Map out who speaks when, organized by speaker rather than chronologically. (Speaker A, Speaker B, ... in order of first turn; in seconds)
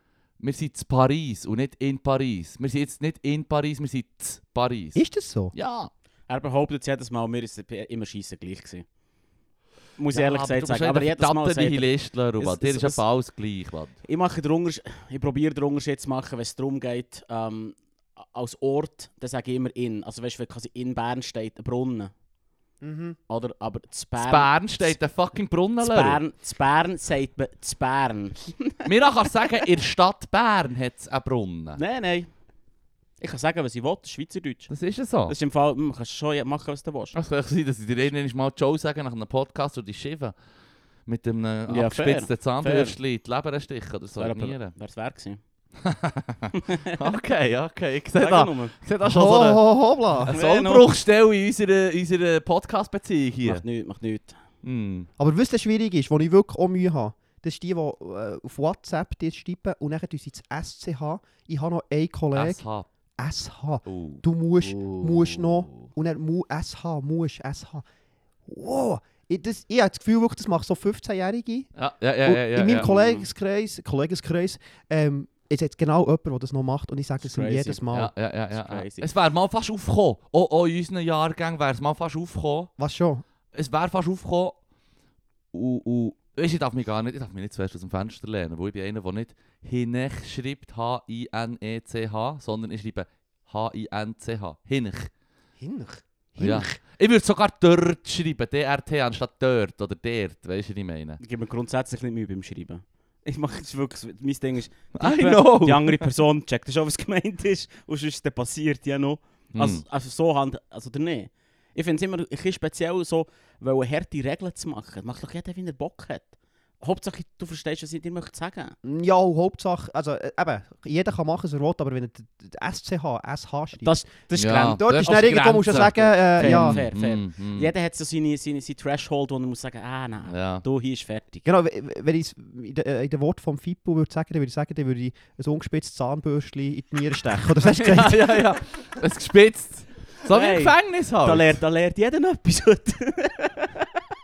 Speaker A: 0.4-5.9, 10.1-13.9, 24.2-26.2, 28.8-31.8, 34.7-35.3, 37.1-40.3, 41.1-44.7, 45.8-53.6, 54.6-55.1, 62.3-62.9, 63.9-65.7, 71.8-72.9, 77.9-82.7, 83.5-84.6, 85.5-95.1, 96.4-101.2, 104.9-106.0, 109.5-109.8, 124.3-127.7, 130.3-130.6, 137.6-141.6
Speaker B: 4.9-5.5, 22.8-23.2, 49.0-50.3, 55.2-62.6, 63.2-67.8, 68.5-71.7, 72.2-78.1, 82.8-83.2, 95.6-96.7, 118.8-124.2, 124.7-126.8, 131.4-138.4
Speaker C: 6.3-8.8, 10.0-13.0, 14.0-17.8, 18.3-22.1, 23.3-24.9, 25.8-29.3, 31.8-32.3, 33.2-34.7, 35.3-37.1, 41.7-42.9, 44.2-45.4, 46.5-47.0, 48.2-48.7, 50.3-50.9, 53.4-54.4, 72.8-73.2, 77.2-77.8, 78.5-79.1, 101.2-116.3, 116.8-118.8, 123.8-131.4, 140.3-143.9